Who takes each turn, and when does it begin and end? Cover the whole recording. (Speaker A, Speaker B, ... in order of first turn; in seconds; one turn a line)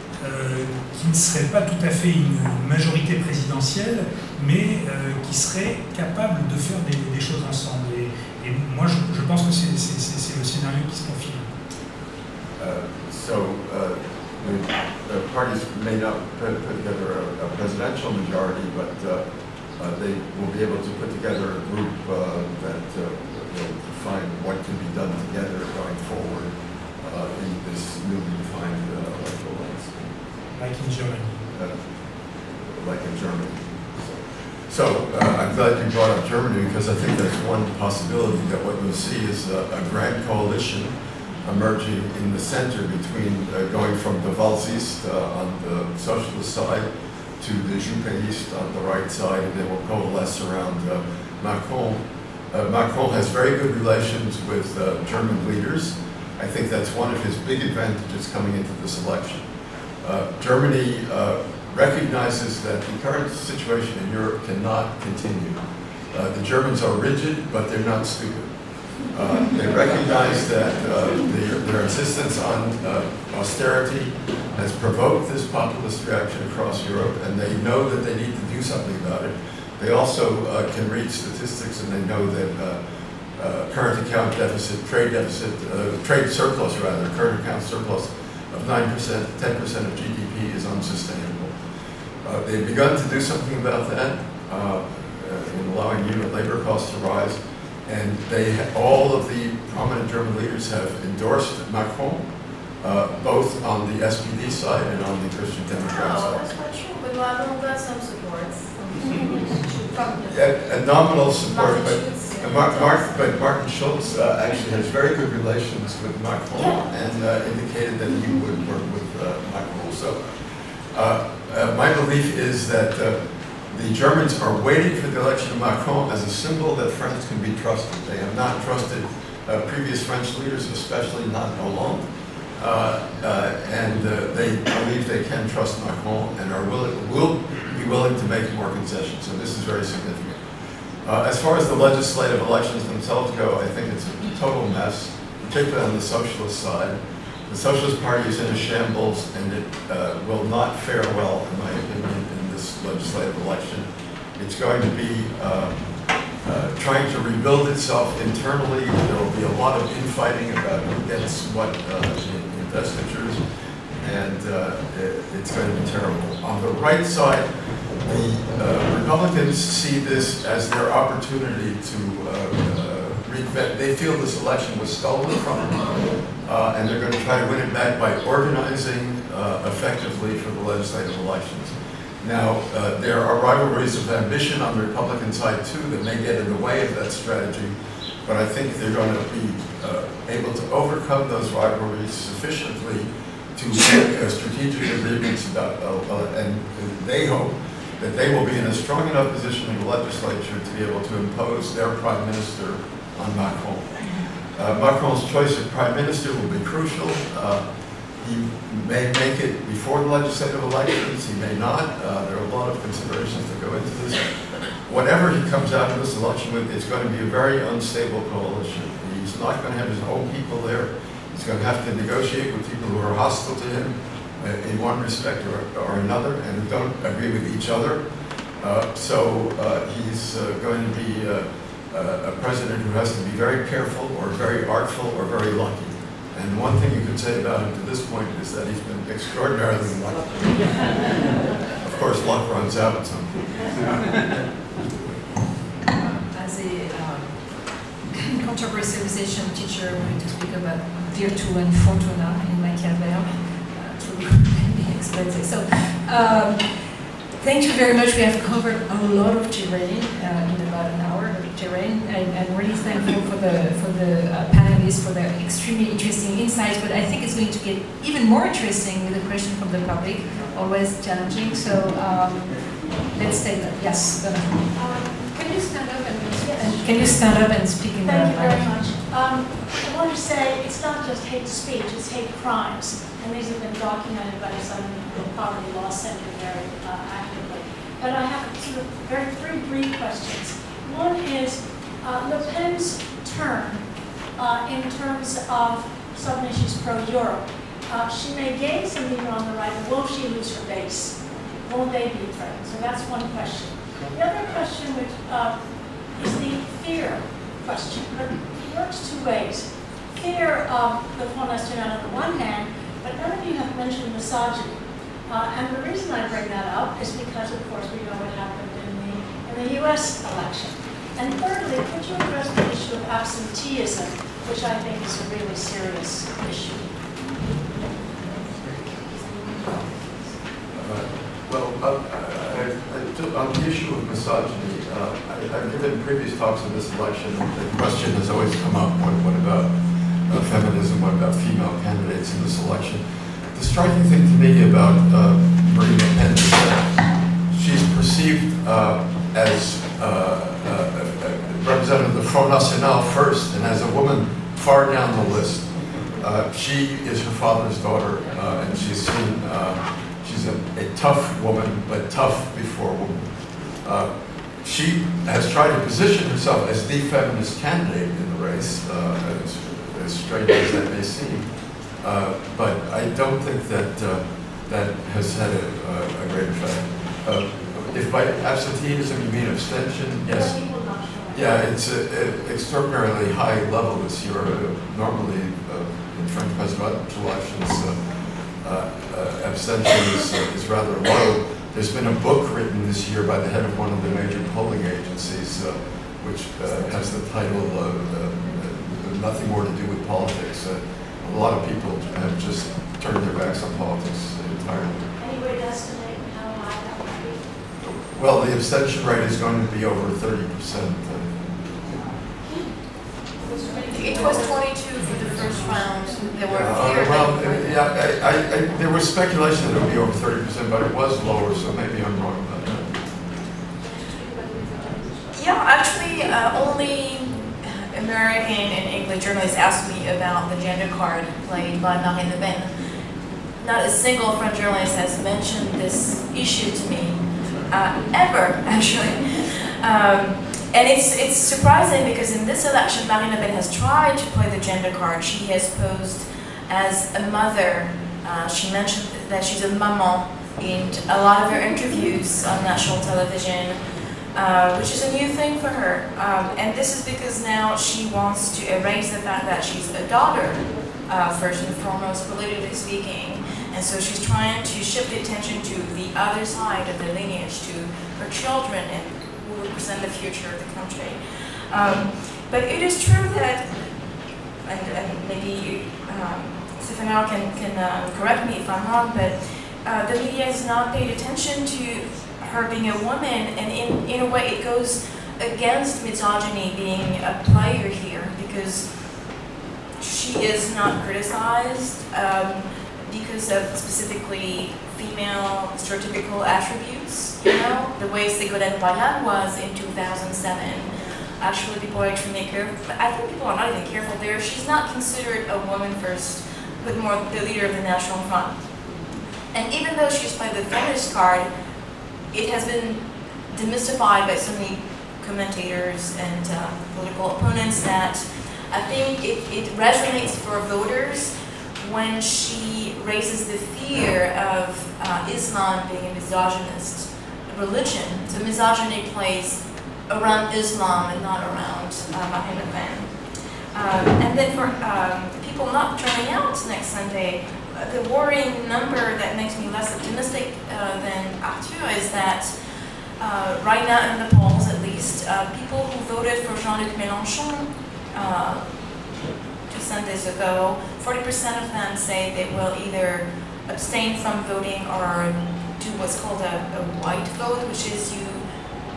Speaker A: 0.2-11.5
Speaker B: 12.6-19.2
Speaker B: 19.8-30.1
Speaker A: 30.6-31.4
Speaker B: 32.6-33.8
Speaker B: 34.7-40.9
Speaker B: 41.4-46.9
Speaker B: 47.4-59.5
Speaker B: 60.0-65.6
Speaker B: 66.1-68.5
Speaker B: 69.1-82.8
Speaker B: 83.4-91.5
Speaker B: 92.2-102.3
Speaker B: 102.8-106.4
Speaker C: 105.9-110.3
Speaker D: 109.0-109.5
Speaker B: 110.3-120.2
Speaker C: 111.4-113.2
Speaker D: 116.6-116.8
Speaker B: 120.9-123.2
Speaker B: 123.7-132.1
Speaker B: 132.6-140.4
Speaker B: 141.0-155.7
Speaker B: 156.4-163.4
Speaker B: 164.0-167.5
Speaker B: 168.0-187.7
Speaker B: 188.2-207.6
Speaker B: 208.2-214.3
Speaker B: 214.8-228.0
Speaker B: 228.6-240.8
Speaker B: 241.8-244.0
Speaker E: 246.0-256.9
Speaker E: 257.4-278.7
Speaker D: 274.8-275.3
Speaker D: 276.4-277.2
Speaker D: 278.0-326.9
Speaker B: 330.8-339.7
Speaker B: 340.3-343.0
Speaker B: 343.5-363.2
Speaker B: 363.8-364.1
Speaker B: 364.6-371.5
Speaker B: 372.0-380.6
Speaker D: 380.2-381.7
Speaker B: 381.3-388.0
Speaker B: 388.6-405.1
Speaker D: 405.2-407.6
Speaker B: 407.8-411.4
Speaker D: 412.4-412.8
Speaker D: 413.4-414.5
Speaker C: 413.9-417.9
Speaker B: 416.5-422.9
Speaker E: 424.1-425.4
Speaker C: 425.3-432.7
Speaker C: 433.6-453.8
Speaker C: 454.3-471.2
Speaker C: 471.7-473.7
Speaker C: 474.6-488.9
Speaker C: 490.0-508.6
Speaker C: 509.5-511.5
Speaker C: 512.3-533.2
Speaker C: 533.7-542.5
Speaker C: 543.2-548.8
Speaker C: 549.7-558.5